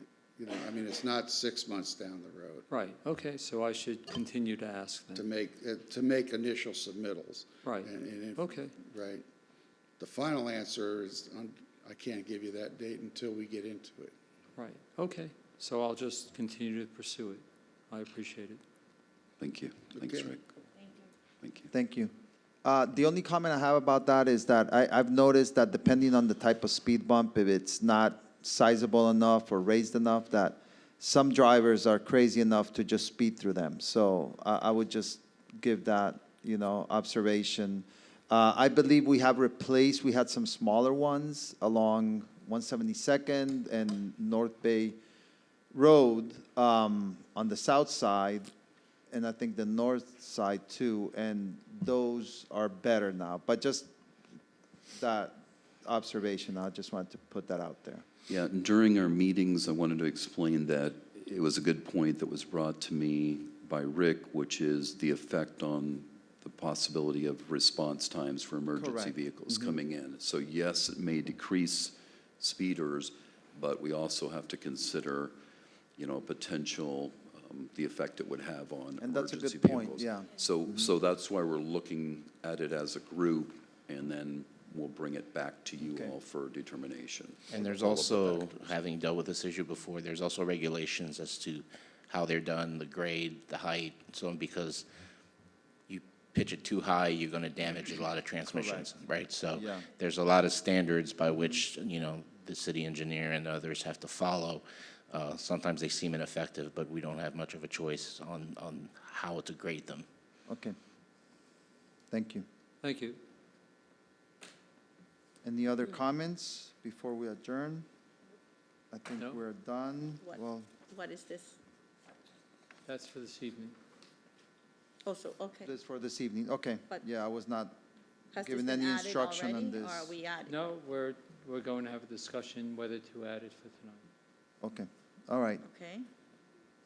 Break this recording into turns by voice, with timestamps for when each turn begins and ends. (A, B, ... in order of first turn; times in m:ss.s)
0:00.4-0:02.7 A
0:02.7-0:05.2 B
0:05.2-0:09.2 A
0:07.6-0:08.7 B
0:10.0-0:14.1 A
0:14.6-0:18.6 B
0:19.4-0:20.4 C
0:20.0-0:20.3 A
0:21.4-0:21.7 C
0:21.7-0:22.1 D
0:22.6-0:45.0 D
0:45.7-0:48.5 D
0:49.1-0:53.9 D
0:55.0-0:58.0 D
0:58.3-1:15.4 C
1:08.8-1:09.5 D
1:16.0-1:28.7 C
1:19.0-1:20.3 D
1:25.8-1:26.2 D
1:27.5-1:34.9 E
1:35.9-1:50.1 E
1:38.4-1:39.9 D
1:50.5-1:50.8 D
1:52.1-1:52.4 D
1:52.8-1:53.2 B
1:55.4-1:57.9 D
1:58.9-2:00.7 D
2:00.2-2:01.6 F
2:02.9-2:03.7 B
2:05.0-2:05.7 F
2:05.6-2:07.8 D
2:08.3-2:10.1 D
2:08.3-2:10.6 F
2:10.5-2:14.0 B
2:14.6-2:15.6 D
2:15.6-2:16.1 F